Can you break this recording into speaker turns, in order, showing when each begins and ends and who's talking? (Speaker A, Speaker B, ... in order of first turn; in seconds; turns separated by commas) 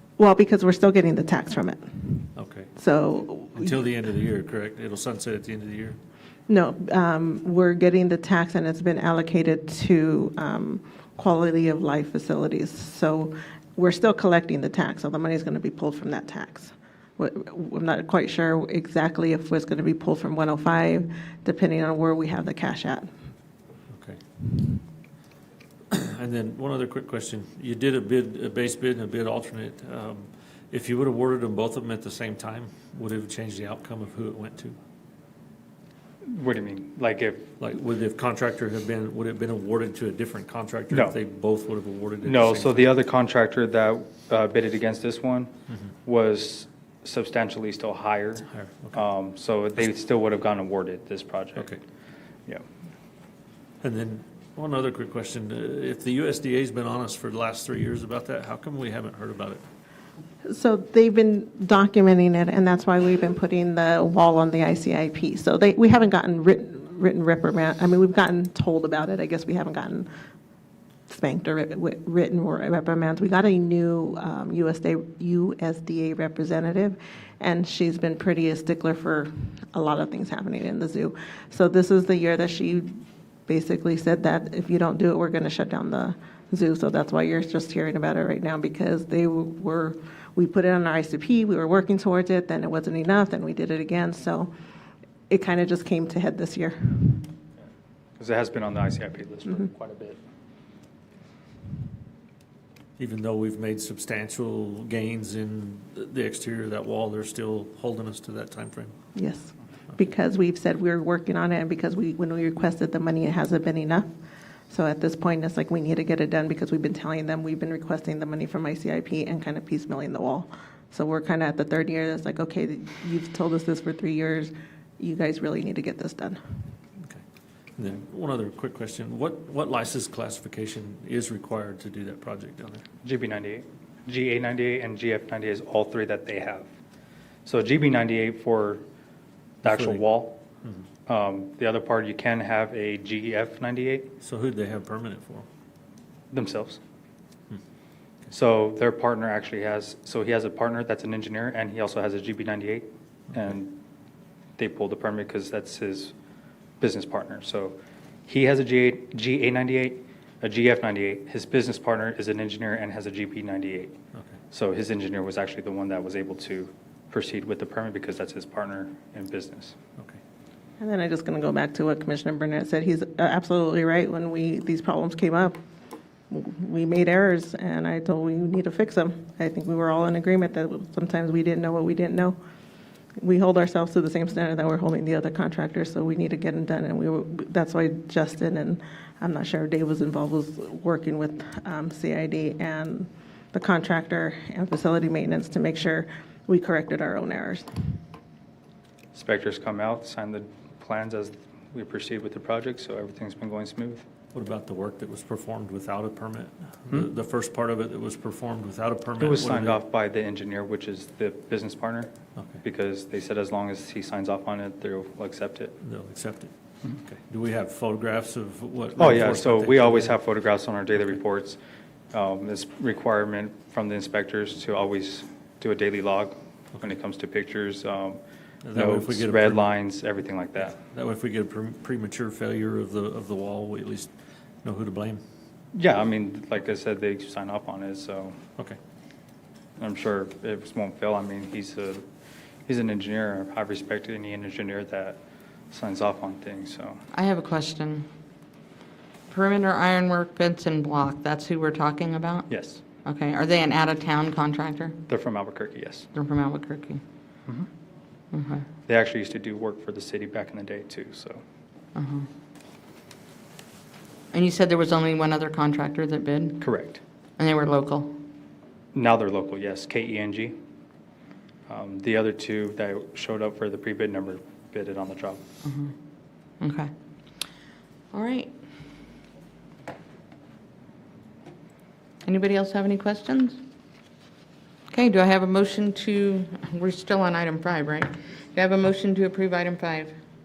Speaker A: 0.2-3.8, Speaker B: 2.4-2.7, Speaker B: 3.5-6.0, Speaker A: 6.5-23.1, Speaker B: 23.9-24.2, Speaker B: 25.9-34.8, Speaker C: 36.3-37.5, Speaker B: 37.6-42.9, Speaker C: 42.2-45.5, Speaker C: 46.0-51.7, Speaker B: 48.5-49.0, Speaker B: 53.8-59.6, Speaker A: 60.4-70.1, Speaker A: 71.1-94.5, Speaker A: 95.3-97.3, Speaker C: 98.2-100.2, Speaker B: 103.0-109.0, Speaker A: 109.1-114.1, Speaker A: 114.7-126.4, Speaker B: 127.8-132.8, Speaker C: 133.0-136.7, Speaker C: 137.4-138.8, Speaker C: 139.6-140.4, Speaker B: 139.6-140.0, Speaker C: 141.1-144.1, Speaker B: 144.2-145.5, Speaker C: 146.3-146.8, Speaker C: 148.3-153.8, Speaker C: 154.6-156.1, Speaker C: 156.8-164.0, Speaker C: 164.5-169.8, Speaker A: 170.8-175.6, Speaker A: 176.3-182.3, Speaker A: 183.2-197.7, Speaker C: 199.1-204.0, Speaker B: 204.3-209.8, Speaker C: 209.2-215.8, Speaker B: 212.3-212.6, Speaker B: 215.8-220.2, Speaker C: 219.0-221.6, Speaker C: 222.1-228.2, Speaker B: 228.6-229.7, Speaker C: 228.7-230.8, Speaker B: 230.7-234.1, Speaker B: 234.6-235.2, Speaker C: 235.7-238.4, Speaker C: 239.8-242.0, Speaker C: 242.7-245.2, Speaker C: 245.7-247.0, Speaker D: 247.1-248.1, Speaker D: 249.3-252.5, Speaker C: 252.5-252.8, Speaker D: 253.0-255.0, Speaker C: 255.1-256.1, Speaker D: 256.1-257.0, Speaker D: 258.3-258.6, Speaker C: 258.9-261.4, Speaker D: 261.9-262.3, Speaker D: 264.3-266.7, Speaker C: 266.6-267.0, Speaker D: 267.4-268.1, Speaker C: 268.9-270.6, Speaker C: 271.7-275.4, Speaker D: 275.6-275.9, Speaker D: 276.6-276.9, Speaker D: 278.1-278.5, Speaker D: 282.2-283.6, Speaker D: 284.9-290.1